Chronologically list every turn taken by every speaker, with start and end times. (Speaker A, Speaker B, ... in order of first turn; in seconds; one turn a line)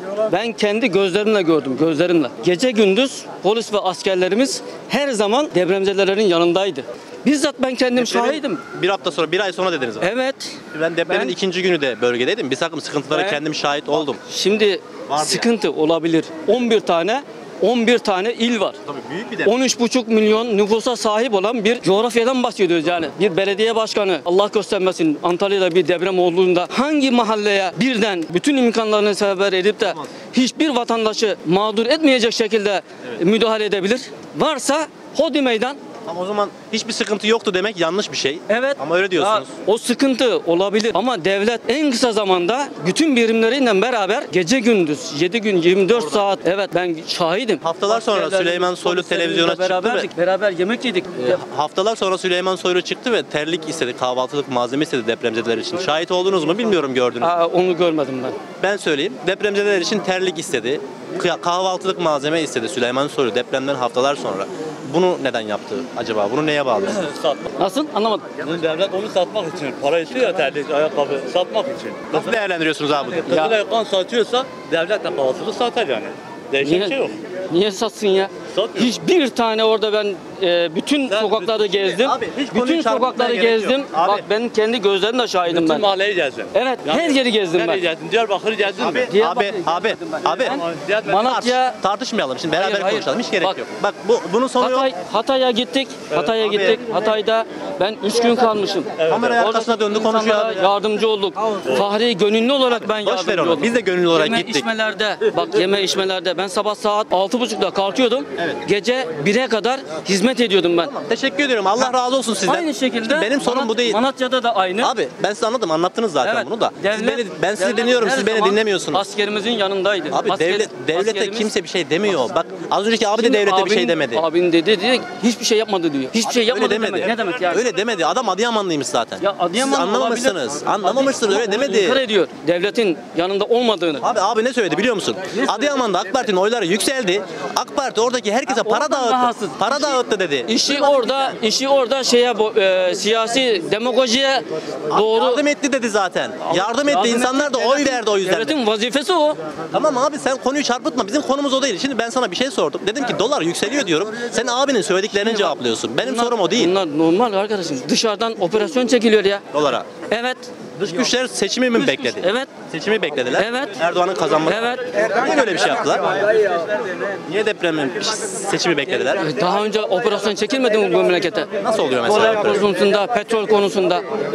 Speaker A: 0.3-8.6
Speaker B: 8.0-10.1
Speaker A: 10.0-10.5
Speaker B: 10.7-14.2
Speaker A: 11.1-11.3
Speaker A: 13.1-13.4
Speaker A: 14.2-18.8
Speaker B: 15.1-15.5
Speaker B: 18.9-19.5
Speaker A: 19.4-35.8
Speaker B: 36.0-39.5
Speaker A: 38.5-51.4
Speaker B: 47.6-50.1
Speaker B: 51.2-57.3
Speaker A: 57.2-58.4
Speaker B: 58.6-67.0
Speaker C: 67.0-67.5
Speaker A: 67.6-68.3
Speaker C: 68.4-72.3
Speaker B: 72.1-73.5
Speaker C: 73.3-77.1
Speaker A: 76.6-77.0
Speaker A: 77.5-85.9
Speaker C: 78.5-79.0
Speaker C: 81.1-82.0
Speaker B: 82.0-84.2
Speaker C: 85.4-89.1
Speaker A: 86.5-87.8
Speaker B: 88.8-90.6
Speaker A: 89.1-89.9
Speaker C: 90.4-91.3
Speaker A: 90.5-91.8
Speaker B: 91.2-94.9
Speaker A: 92.5-93.6
Speaker A: 94.6-110.9
Speaker B: 96.1-96.8
Speaker C: 99.0-99.4
Speaker B: 99.0-100.6
Speaker B: 102.8-104.7
Speaker B: 110.9-114.0
Speaker A: 112.5-114.9
Speaker B: 114.8-119.0
Speaker A: 116.2-121.5
Speaker B: 120.1-124.2
Speaker A: 123.1-127.7
Speaker B: 126.2-132.0
Speaker A: 129.2-134.0
Speaker B: 134.0-141.3
Speaker A: 138.5-145.4
Speaker B: 144.9-148.6
Speaker A: 146.4-149.4
Speaker B: 149.7-156.7
Speaker A: 155.1-159.4
Speaker B: 159.5-159.9
Speaker A: 160.0-160.5
Speaker B: 160.8-166.1
Speaker A: 161.7-162.5
Speaker A: 163.3-163.8
Speaker A: 164.4-164.8
Speaker B: 167.2-169.3
Speaker A: 169.2-171.5
Speaker B: 171.6-172.7
Speaker A: 172.0-174.0